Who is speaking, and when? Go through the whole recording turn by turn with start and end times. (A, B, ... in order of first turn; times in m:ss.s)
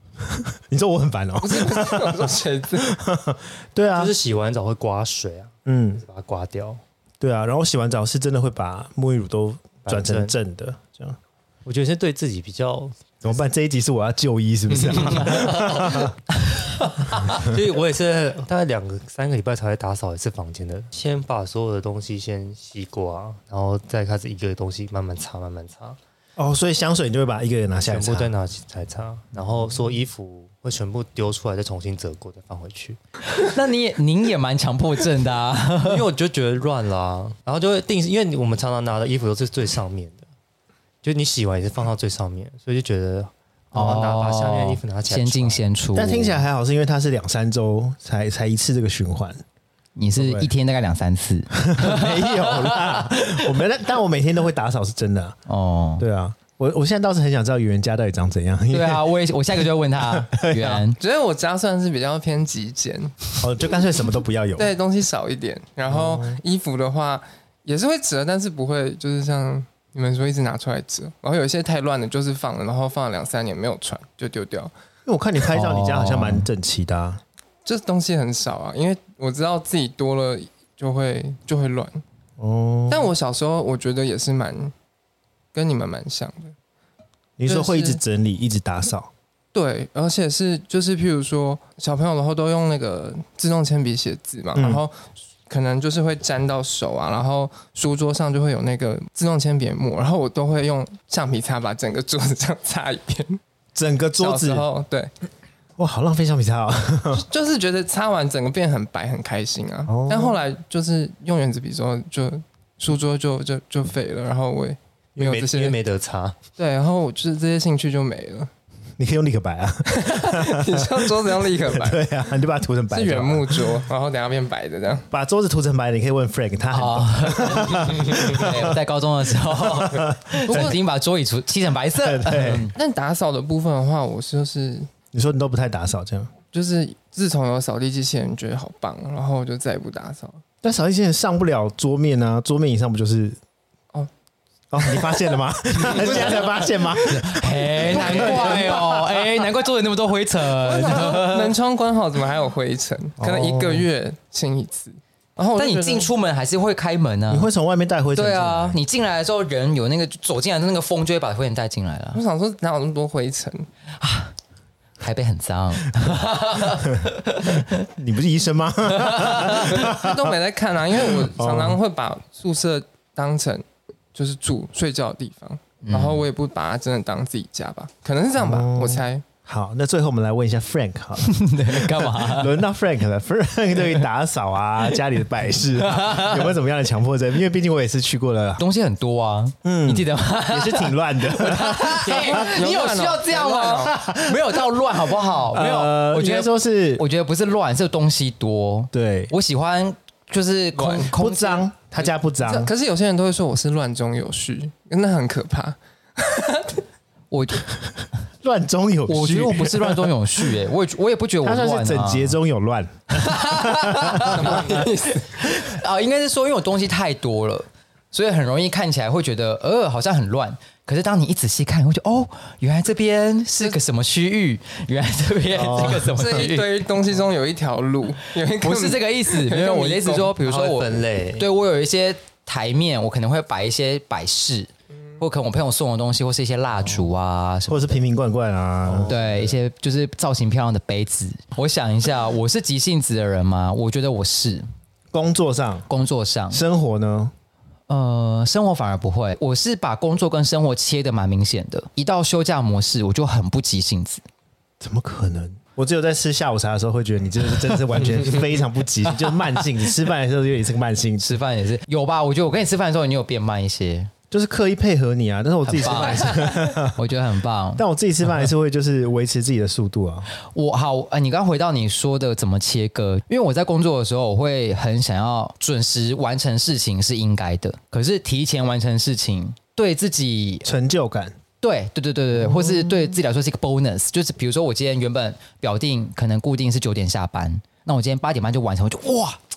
0:00.2-0:04.1 A
0:01.4-0:03.0 B
0:03.9-0:06.8 C
0:05.6-0:06.0 A
0:07.2-0:11.2 A
0:09.8-0:10.3 C
0:11.6-0:13.1 C
0:13.2-0:16.2 A
0:14.8-0:16.1 C
0:16.5-0:17.4 D
0:17.1-0:26.0 C
0:26.4-0:28.3 A
0:27.8-0:33.0 C
0:33.3-0:36.0 D
0:35.8-0:40.2 C
0:41.0-0:45.6 C
0:43.7-0:46.4 D
0:45.9-0:49.4 A
0:50.0-0:53.4 D
0:50.1-0:50.5 A
0:51.6-0:55.4 A
0:55.5-0:56.0 D
0:56.0-0:59.1 A
0:58.7-1:01.0 D
1:00.0-1:00.8 A
1:00.9-1:03.4 B
1:03.4-1:04.7 A
1:04.6-1:14.7 B
1:05.9-1:06.4 A
1:15.0-1:17.2 A
1:15.5-1:16.5 D
1:17.6-1:22.0 B
1:22.4-1:23.1 A
1:22.9-1:24.7 B
1:25.5-1:26.5 B
1:27.4-1:29.1 A
1:27.5-1:28.0 B
1:29.5-1:43.4 B
1:34.5-1:34.8 A
1:43.7-1:44.6 A
1:44.2-1:45.1 B
1:45.8-1:47.2 A
1:47.1-1:55.8 B
1:49.9-1:50.4 A
1:55.2-1:56.4 C
1:56.6-1:58.5 B
1:59.0-2:03.8 A
1:59.8-2:02.0 B
2:02.9-2:05.1 B
2:05.1-2:08.7 A
2:06.7-2:12.7 D
2:09.5-2:10.7 A
2:10.4-2:10.8 B
2:12.0-2:12.7 A
2:12.7-2:14.9 B
2:15.1-2:16.3 A
2:16.5-2:20.4 B
2:20.6-2:23.4 A
2:24.7-2:29.2 A
2:24.8-2:27.0 B
2:27.0-2:31.5 D
2:27.7-2:29.0 B
2:30.6-2:36.1 B
2:33.2-2:33.9 A
2:35.6-2:37.5 D
2:37.3-2:38.8 A
2:38.1-2:42.2 D
2:42.1-2:43.7 B
2:44.0-2:44.3 D
2:45.0-2:47.8 D
2:46.8-2:50.3 A
2:48.9-2:49.8 D
2:49.7-2:59.2 B
2:51.1-2:51.8 A
2:55.8-2:56.2 D
2:58.4-3:08.6 A
3:01.2-3:02.6 D
3:05.8-3:06.5 D
3:08.6-3:21.7 D
3:09.6-3:12.4 A
3:12.0-3:13.9 B
3:13.8-3:14.7 A
3:15.5-3:17.0 A
3:18.9-3:19.3 A
3:20.7-3:21.1 B
3:21.1-3:22.7 A
3:22.4-3:26.8 B
3:27.3-3:27.6 D
3:28.4-3:30.1 A
3:29.1-3:32.4 D
3:31.4-3:34.8 A
3:33.1-3:34.8 D
3:34.2-3:35.4 B
3:35.4-3:46.8 D
3:45.5-3:46.2 A
3:45.9-3:50.3 B
3:48.6-3:54.7 D
3:50.4-3:51.5 C
3:55.2-3:58.0 D
3:57.7-3:59.2 A
3:58.8-3:59.5 C
3:59.1-4:04.7 D
4:05.1-4:05.9 A
4:05.9-4:06.6 D
4:06.5-4:07.3 A
4:07.9-4:14.2 D
4:14.8-4:21.2 A
4:21.2-4:24.1 D
4:24.3-4:27.0 A
4:25.6-4:27.8 D
4:27.8-4:30.3 A
4:30.5-4:40.7 D
4:40.6-4:41.4 A
4:41.6-4:49.4 D
4:42.4-4:43.1 A